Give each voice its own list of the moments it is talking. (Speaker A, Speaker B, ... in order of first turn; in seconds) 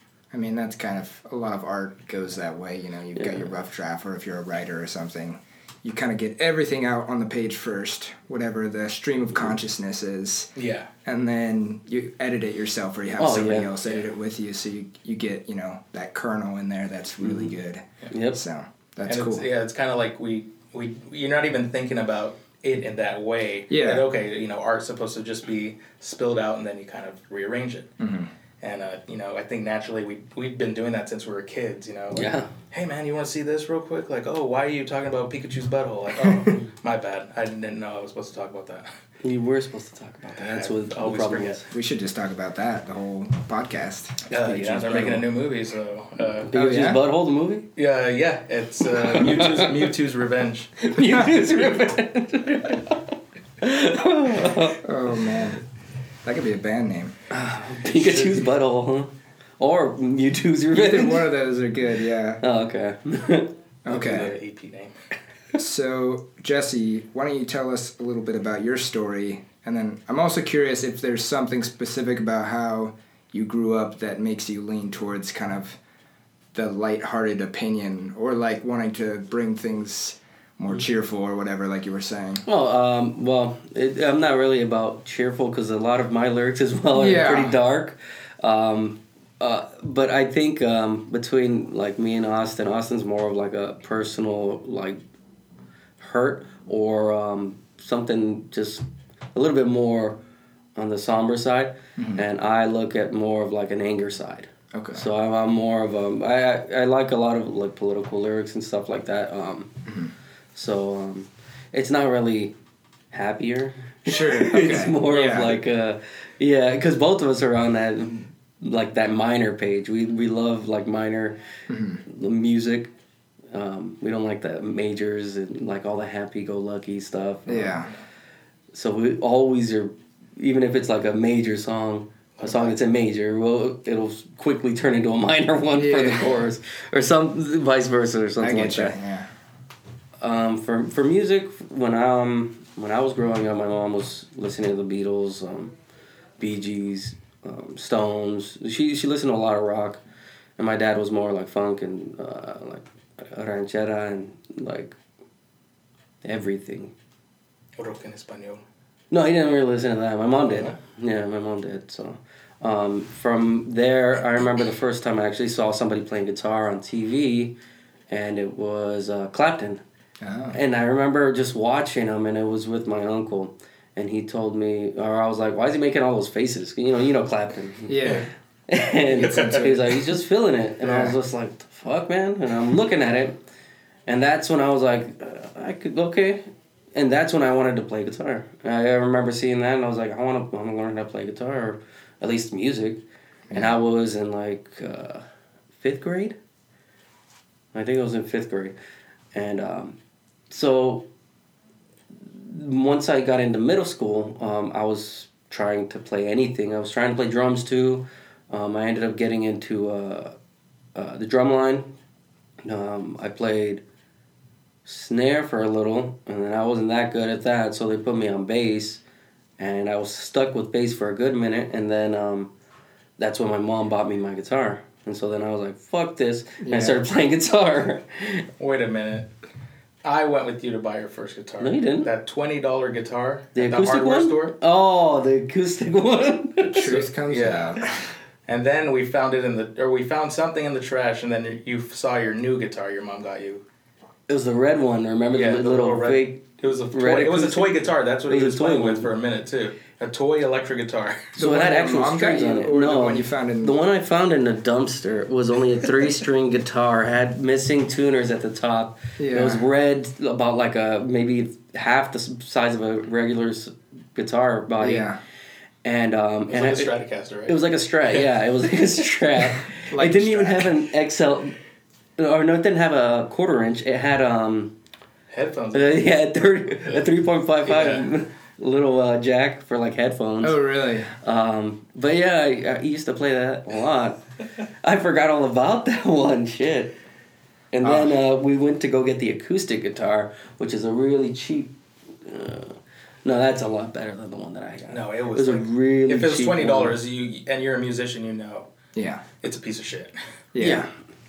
Speaker A: 0.3-10.5, 11.0-19.5, 23.7-24.1, 28.0-28.3, 41.7-45.2, 46.5-47.0, 54.8-55.6, 56.2-57.1, 60.7-62.4, 63.9-64.3, 65.5-75.8, 76.5-82.4, 86.9-87.6, 102.0-102.2, 104.7-105.0, 109.8-110.1, 114.0-115.6, 121.7-122.0, 127.5-127.9, 135.7-136.4, 138.4-139.3, 170.2-170.6, 177.9-178.3, 179.2-179.8, 180.8-181.2, 226.6-227.0, 236.7-238.1, 251.3-253.8, 259.2-259.6, 264.8-265.2, 269.8-270.7, 280.4-281.1, 287.8-288.1, 298.9-299.2, 300.5-300.9
Speaker B: 3.1-3.5, 13.2-13.7, 17.2-17.5, 18.1-18.4, 32.1-32.5, 39.2-41.7, 46.4-47.7, 49.0-49.7, 50.8-53.0, 53.6-54.8, 57.3-61.3, 62.4-63.5, 82.4-95.0, 96.0-100.2, 100.8-109.7, 110.5-112.5, 113.1-121.4, 122.0-122.9, 123.5-127.8, 128.7-138.9, 140.2-145.7, 146.4-150.0, 150.6-155.0, 156.2-156.9, 159.1-167.6, 168.1-169.8, 170.5-178.2, 178.7-183.4, 184.1-195.2, 195.8-196.3, 197.7-198.7, 199.3-200.0, 200.5-201.1, 202.2-210.4, 210.9-211.9, 212.6-213.8, 214.8-219.0, 219.6-222.5, 223.2-228.5, 231.6-232.1, 233.5-237.1, 244.3-247.8, 248.3-249.1, 251.4-265.1, 265.8-266.9, 267.5-271.6, 272.2-274.8, 275.7-284.2, 284.8-286.9, 287.7-291.7, 292.2-297.0, 300.6-300.9
Speaker C: 10.5-10.9, 13.8-14.1, 19.1-27.9, 28.6-38.9, 40.4-41.7, 44.3-46.5, 47.8-50.8, 58.0-58.4, 63.9-65.0, 132.4-132.8, 157.8-158.6, 160.4-160.8, 179.2-179.9, 228.6-229.3, 230.0-234.5, 236.8-237.8, 238.4-243.6, 245.3-251.3, 266.5-267.6, 275.3-276.1, 277.6-278.1, 294.9-298.7, 299.4-300.1